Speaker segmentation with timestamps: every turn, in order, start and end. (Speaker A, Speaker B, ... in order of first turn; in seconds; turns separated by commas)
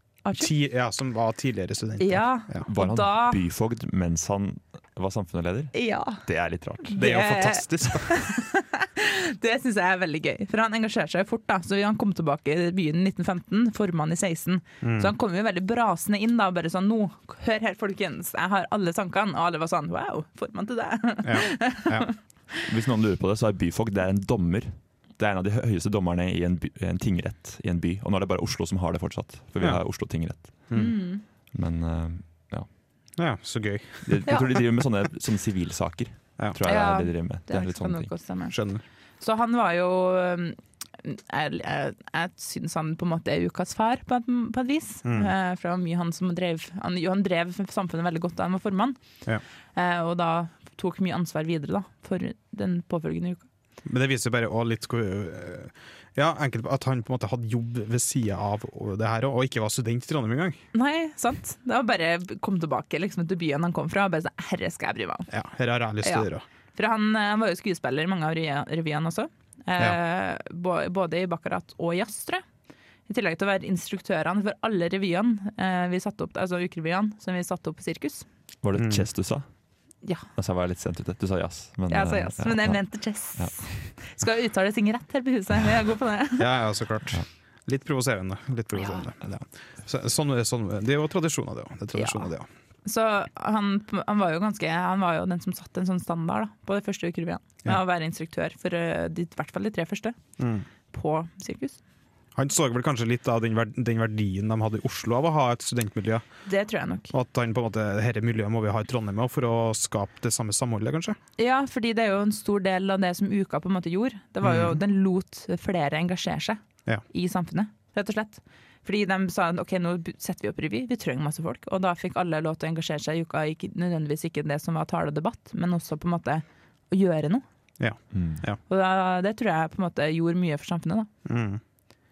Speaker A: 0.2-0.5, Speaker B: 0.4-2.6, Speaker A: 2.0-3.4, Speaker C: 2.7-7.0, Speaker A: 5.7-6.2, Speaker A: 6.9-22.1, Speaker B: 7.0-8.2, Speaker B: 14.8-15.1, Speaker B: 21.2-22.1, Speaker C: 22.6-30.8, Speaker A: 30.7-31.2, Speaker C: 31.5-32.7, Speaker B: 33.2-34.3, Speaker C: 34.0-38.1, Speaker A: 36.6-38.6, Speaker B: 38.5-38.8, Speaker A: 39.2-49.0, Speaker B: 45.0-45.3, Speaker A: 49.7-53.4, Speaker B: 53.9-60.6, Speaker A: 60.7-65.3, Speaker B: 65.3-66.4, Speaker A: 66.0-72.4, Speaker A: 73.1-78.2, Speaker C: 78.6-79.4, Speaker B: 78.8-79.1, Speaker C: 80.3-82.8, Speaker A: 81.9-86.5, Speaker B: 86.4-92.5, Speaker A: 88.8-89.1, Speaker A: 91.9-92.3, Speaker A: 92.8-100.2, Speaker B: 100.4-100.7, Speaker A: 100.9-101.8, Speaker B: 102.4-106.2, Speaker A: 106.5-107.1, Speaker B: 107.1-111.2, Speaker A: 111.4-127.4, Speaker B: 114.4-114.8, Speaker B: 127.8-128.6, Speaker C: 128.1-128.4, Speaker A: 128.7-131.1, Speaker B: 131.2-131.6